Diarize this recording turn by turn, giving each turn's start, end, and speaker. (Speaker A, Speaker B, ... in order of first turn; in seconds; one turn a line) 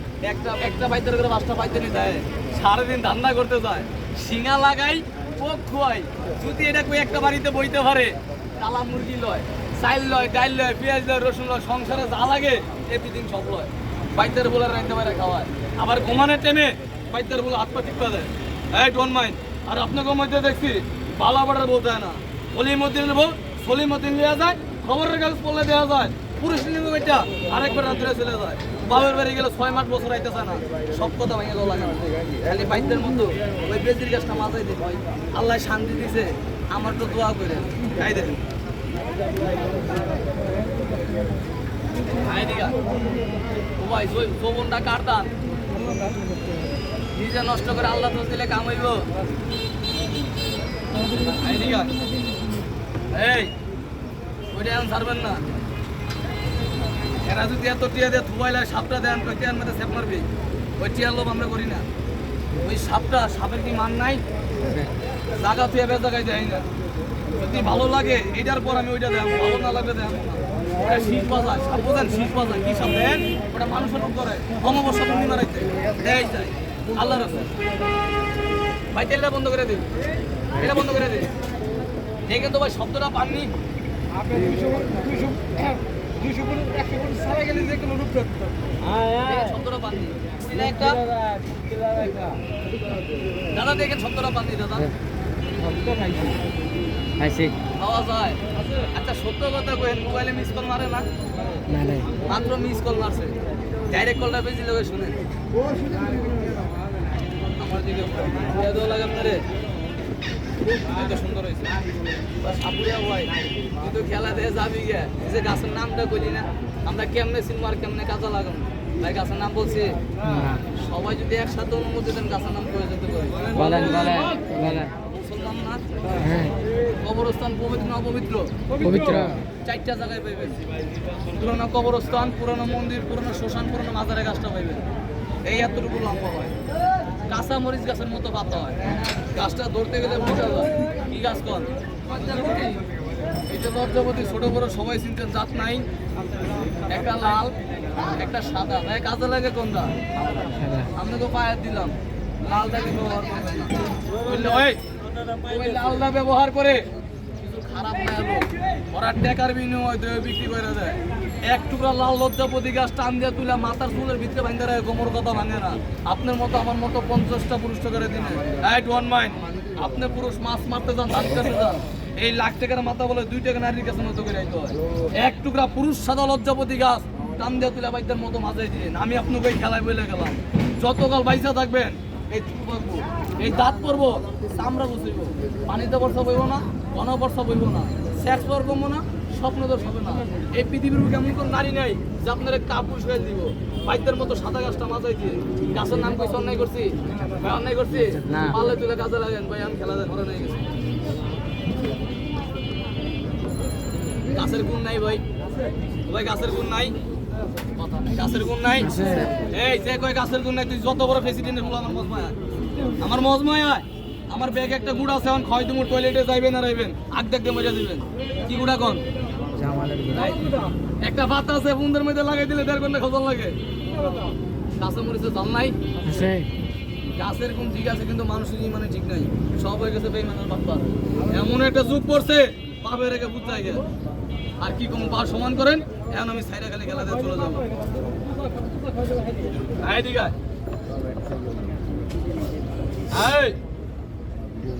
Speaker A: 0.2-38.4
Speaker A: 42.2-42.8
Speaker A: 43.8-45.3
Speaker A: 47.1-49.0
Speaker A: 51.3-51.9
Speaker A: 53.1-53.5
Speaker A: 54.5-55.4
Speaker A: 57.2-60.2
Speaker A: 60.8-61.9
Speaker A: 62.6-64.2
Speaker A: 65.4-66.6
Speaker A: 67.3-77.5
Speaker A: 78.9-79.9
Speaker A: 80.5-81.3
Speaker A: 82.3-83.5
Speaker B: 84.4-84.8
Speaker B: 86.4-88.2
Speaker A: 89.2-91.0
Speaker B: 91.0-92.4
Speaker A: 93.5-94.9
Speaker B: 95.8-96.3
Speaker C: 97.2-97.5
Speaker A: 97.8-101.0
Speaker C: 101.7-102.1
Speaker A: 102.2-103.3
Speaker A: 103.9-105.2
Speaker A: 107.6-109.4
Speaker A: 110.9-111.7
Speaker A: 112.4-120.0
Speaker C: 120.3-120.6
Speaker A: 120.7-125.8
Speaker C: 123.5-124.9
Speaker C: 126.2-126.5
Speaker A: 127.0-128.5
Speaker C: 128.8-129.4
Speaker A: 129.6-130.6
Speaker A: 131.3-134.8
Speaker A: 135.4-136.6
Speaker A: 137.3-138.8
Speaker A: 139.3-142.8
Speaker A: 143.5-145.8
Speaker A: 146.9-149.9
Speaker C: 150.5-150.9
Speaker A: 150.9-154.8
Speaker A: 155.4-156.8
Speaker A: 157.4-200.7
Speaker C: 198.2-198.6
Speaker A: 204.3-205.2
Speaker A: 206.1-206.9
Speaker A: 207.8-212.3
Speaker C: 208.8-209.4
Speaker A: 213.0-219.0
Speaker C: 219.6-220.3
Speaker A: 220.1-220.4
Speaker A: 221.0-223.6
Speaker A: 224.8-225.8
Speaker C: 226.0-226.5
Speaker A: 227.2-233.8
Speaker A: 234.6-237.7
Speaker A: 239.8-240.3
Speaker A: 243.1-243.6